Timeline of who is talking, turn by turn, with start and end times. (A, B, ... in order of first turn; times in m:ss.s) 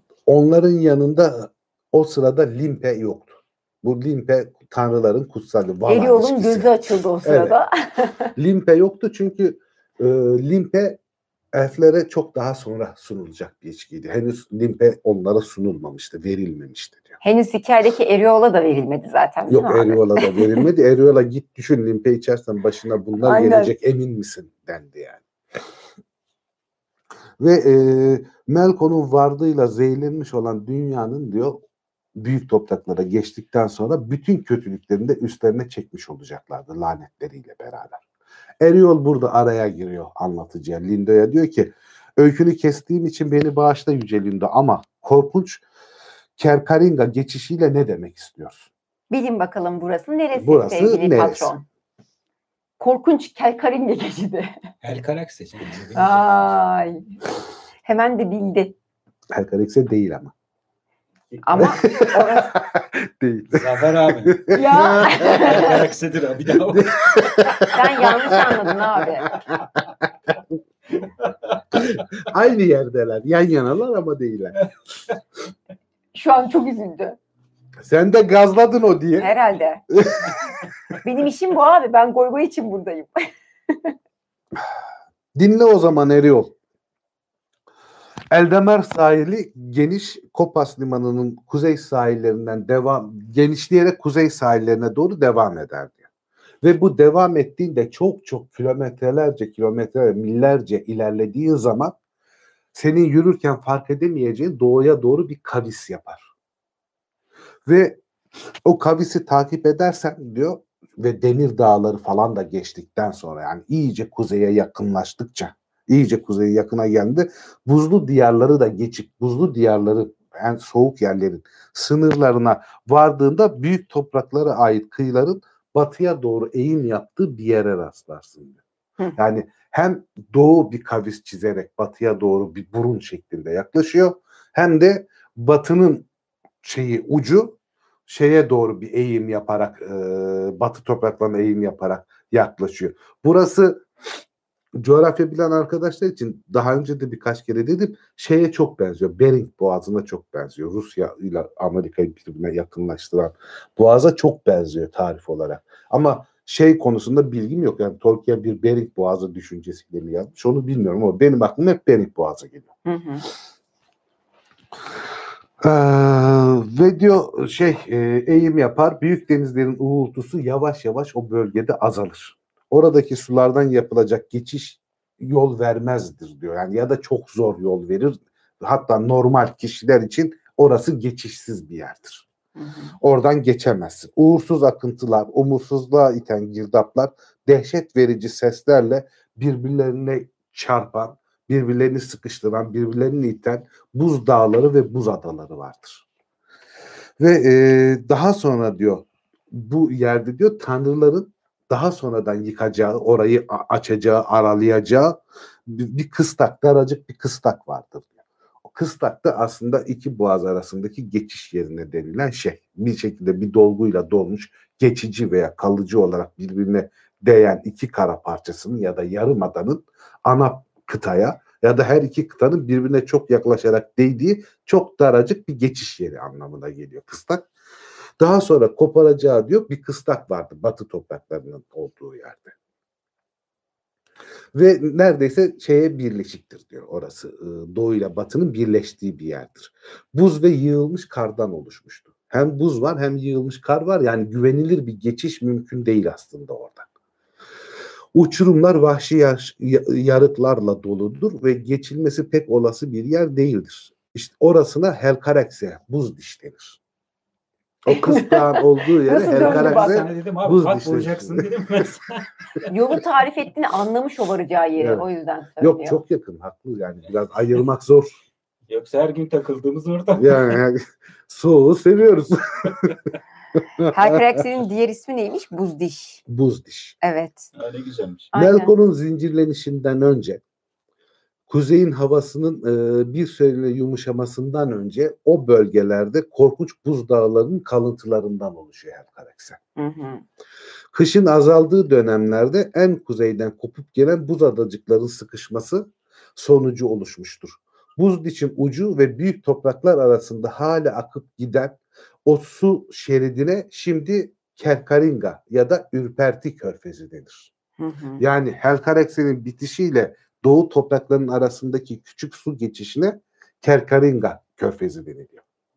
0:00.3-0:06.7 A
0:05.9-0:08.3 B
0:07.2-0:07.6 A
0:08.4-0:11.0 A
0:11.5-0:17.2 A
0:17.2-0:20.6 B
0:19.5-0:25.2 A
0:23.2-0:23.7 B
0:27.4-0:31.6 A
0:32.2-0:38.0 A
0:38.6-0:45.6 A
0:46.4-0:48.7 A
0:49.1-0:51.6 B
0:50.4-0:51.5 A
0:52.8-0:54.6 B
0:54.8-0:56.4 C
0:56.0-0:57.0 B
0:57.8-0:58.7 B
0:59.3-1:00.3 A
1:01.3-1:01.7 C
1:01.4-1:02.5 B
1:01.6-1:05.8 A
1:03.5-1:04.4 C
1:04.5-1:05.8 B
1:05.1-1:07.7 C
1:06.7-1:09.6 A
1:07.7-1:09.3 B
1:11.0-1:11.9 C
1:11.7-1:14.6 A
1:16.1-1:17.2 B
1:17.8-1:19.3 A
1:19.2-1:19.8 B
1:19.9-1:20.5 A
1:21.0-1:23.1 B
1:25.4-1:26.6 A
1:28.3-1:36.1 A
1:36.6-1:42.0 A
1:42.7-1:46.3 A
1:47.7-1:48.0 A
1:48.6-2:08.6 A
2:09.2-2:16.1 A
2:16.6-2:23.8 A
2:24.8-2:42.7 A
2:42.8-2:43.3 B
2:45.6-3:02.3 A
3:02.6-3:03.0 B
3:03.0-3:16.0 A
3:17.2-3:28.1 A
3:28.6-3:47.5 A
3:48.2-3:52.6 A
3:54.6-4:06.9 A
4:08.1-4:16.8 A
4:17.8-4:21.9 A
4:17.9-4:20.0 B
4:19.3-4:22.7 C
4:22.7-4:26.0 B
4:24.8-4:25.0 A
4:25.6-4:28.2 A
4:28.7-4:30.6 C
4:30.2-4:32.9 A
4:33.6-4:34.4 A
4:33.9-4:36.2 B
4:36.3-4:37.0 A
4:37.0-4:37.5 B
4:37.6-4:38.3 C
4:38.3-4:38.7 B
4:38.3-4:40.4 A
4:41.5-4:49.6 A
4:49.8-4:50.2 B
4:50.9-5:07.5 A
5:07.8-5:08.2 B
5:08.2-5:15.4 A